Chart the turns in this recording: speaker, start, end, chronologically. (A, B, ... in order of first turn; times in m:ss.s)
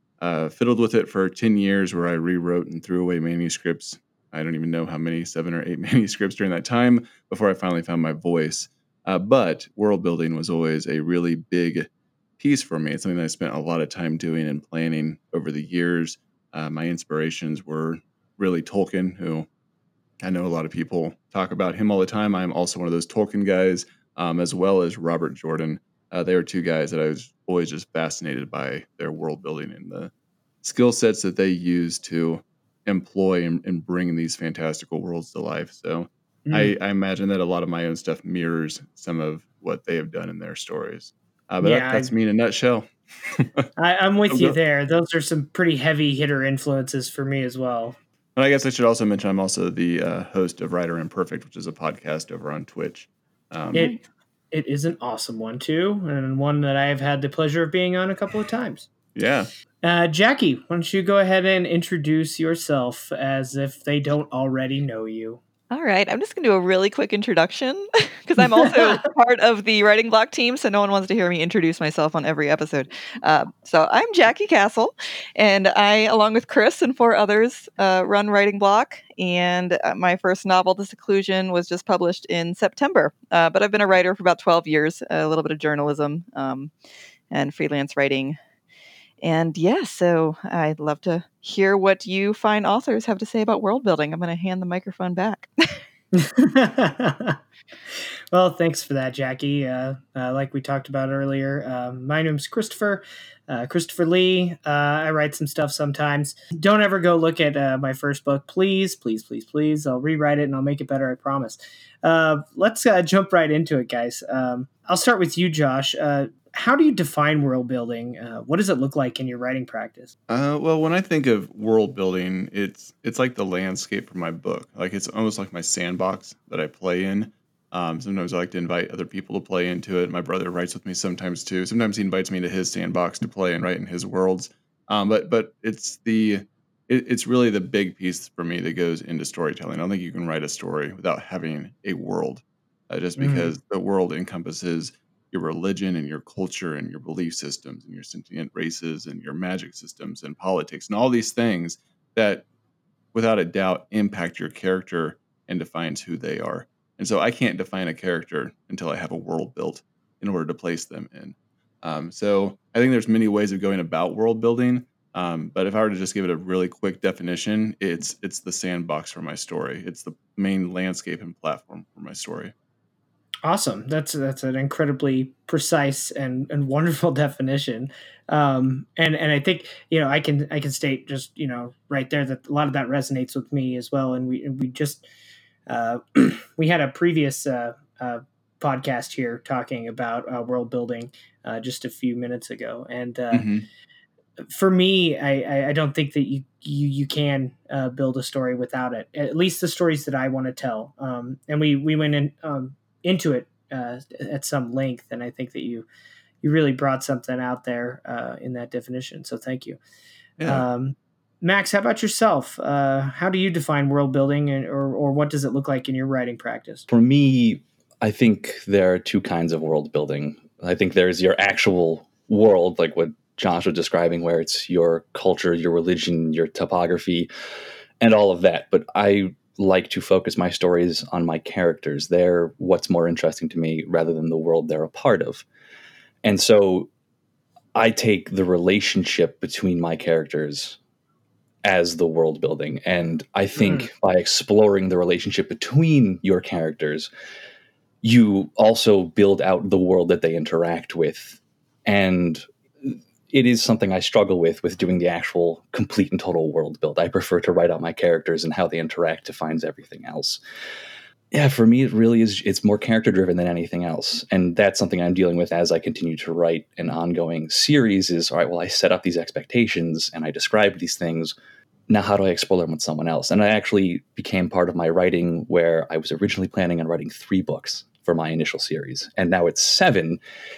0:00.2-0:19.5 A
0:20.2-0:30.1 A
0:30.6-0:43.7 A
0:36.4-0:36.7 B
0:41.6-0:42.1 B
0:43.8-0:48.0 B
0:44.3-0:44.6 A
0:48.4-0:53.9 A
0:54.5-0:58.9 B
0:59.1-0:59.5 A
0:59.8-1:05.4 B
1:05.7-1:26.7 C
1:27.3-1:28.4 C
1:29.2-1:35.8 C
1:36.1-1:37.4 B
1:38.3-2:00.1 B
2:00.3-2:32.4 A
2:23.2-2:23.5 B
2:33.1-2:52.5 A
2:53.4-3:05.0 B
3:05.7-3:13.5 B
3:13.3-3:13.6 A
3:14.5-3:25.8 B
3:26.4-3:29.8 B
3:30.4-3:30.6 A
3:30.5-3:36.9 B
3:36.9-3:47.3 D
3:48.0-3:55.4 D
3:56.2-3:56.9 D
3:57.7-4:00.8 D
4:01.6-4:07.1 D
4:03.6-4:03.9 B
4:08.0-4:20.4 D
4:21.3-4:31.4 D
4:31.9-4:40.2 D